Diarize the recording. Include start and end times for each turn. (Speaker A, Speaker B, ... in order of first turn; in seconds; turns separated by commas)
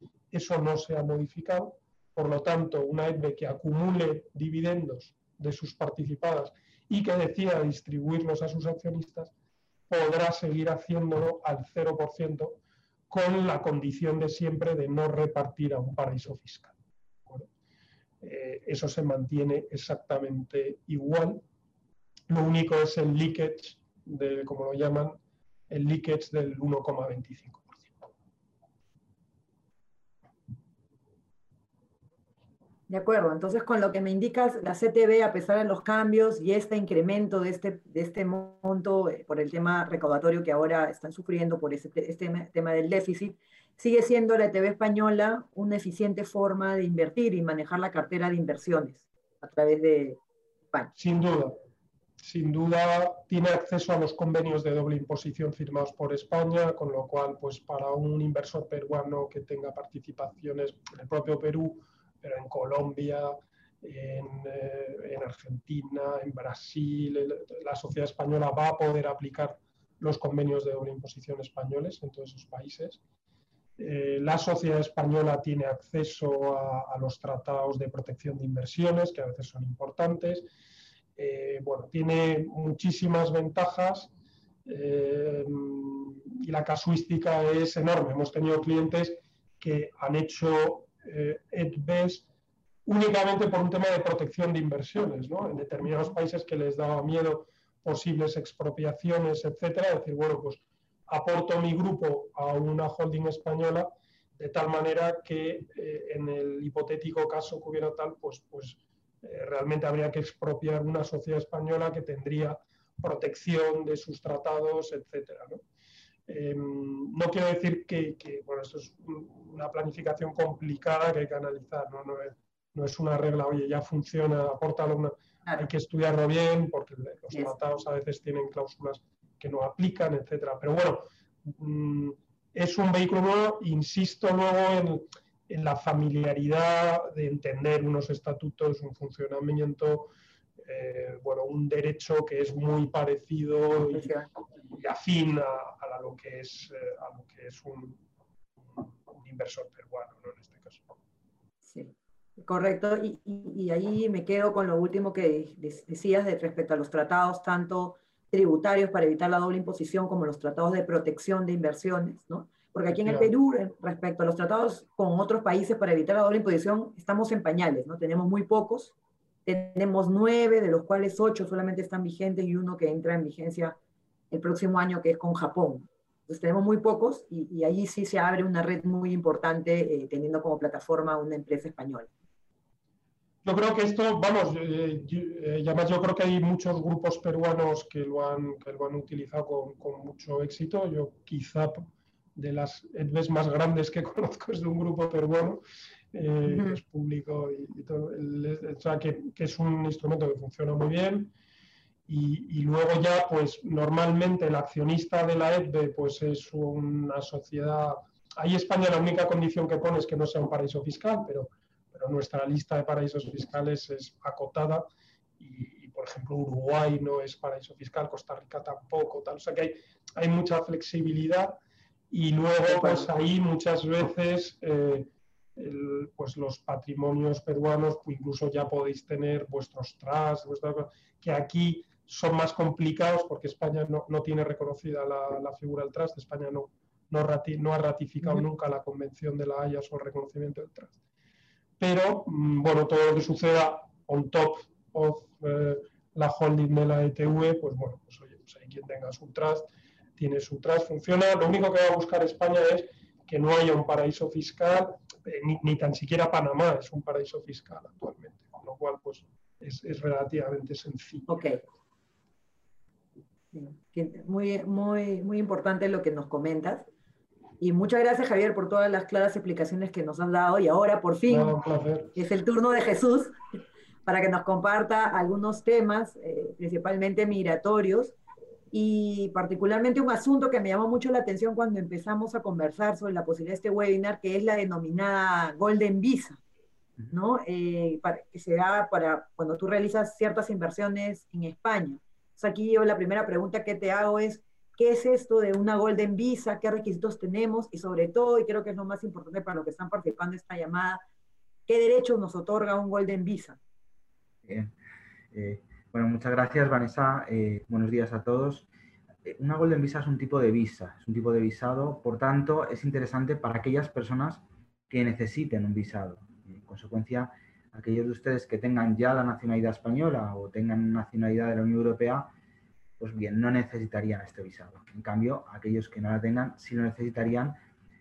Speaker A: 0.3-9.3, Speaker A: 9.9-16.8, Speaker A: 18.2-21.4, Speaker A: 22.3-27.9, Speaker B: 32.9-50.2, Speaker A: 51.0-51.6, Speaker A: 52.2-73.0, Speaker A: 73.8-80.5, Speaker A: 81.2-84.1, Speaker A: 84.7-92.3, Speaker A: 92.8-115.6, Speaker A: 116.3-148.0, Speaker B: 143.9-144.3, Speaker A: 148.7-150.9, Speaker B: 151.7-168.9, Speaker A: 163.0-163.3, Speaker B: 169.5-173.8, Speaker B: 174.3-182.1, Speaker A: 183.4-195.6, Speaker A: 196.1-201.3, Speaker B: 196.5-196.8, Speaker A: 202.1-214.9, Speaker A: 215.4-221.6, Speaker A: 222.1-241.0, Speaker B: 222.7-223.1, Speaker A: 241.8-261.3, Speaker B: 261.3-261.6, Speaker B: 263.5-266.9, Speaker B: 267.6-271.6, Speaker A: 271.3-272.2, Speaker B: 272.2-273.4, Speaker B: 274.1-278.2, Speaker B: 278.7-286.4, Speaker B: 287.1-301.0, Speaker B: 301.7-303.6, Speaker C: 304.5-304.8, Speaker C: 305.3-308.7, Speaker C: 309.2-322.3, Speaker C: 323.0-327.6